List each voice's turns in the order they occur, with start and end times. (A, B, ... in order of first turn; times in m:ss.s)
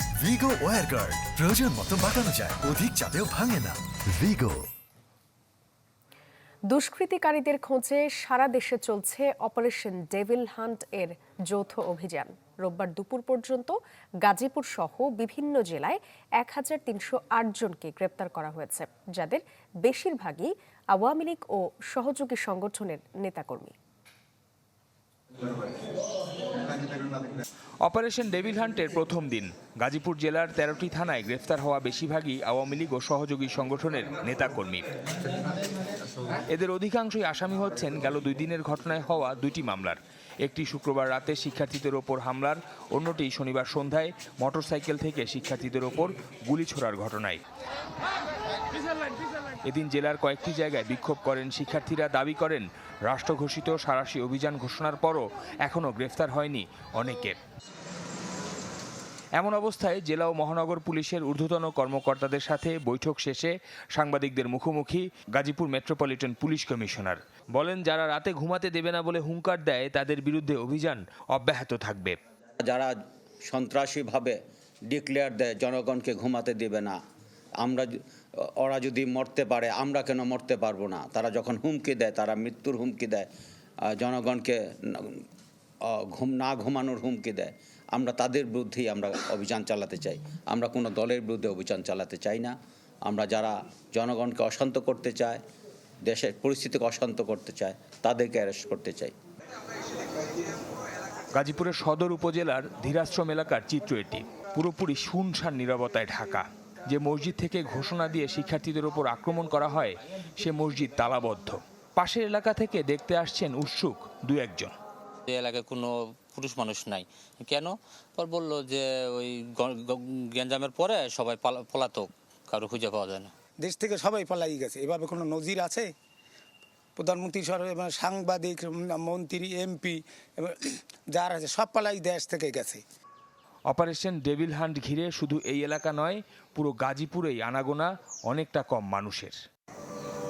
0:00.2-0:04.6 A
0:06.7-0:23.7 B
0:27.9-0:34.8 C
0:36.5-0:47.4 C
0:49.7-0:57.4 C
0:59.4-1:12.2 C
1:12.6-1:14.4 D
1:14.9-1:17.0 D
1:17.6-1:18.0 D
1:18.6-1:23.3 D
1:23.9-1:25.2 D
1:25.9-1:35.4 D
1:36.0-1:39.1 D
1:41.3-1:54.8 C
1:55.3-2:03.3 E
2:03.6-2:05.9 F
2:07.0-2:10.6 F
2:11.1-2:12.8 F
2:13.7-2:19.4 C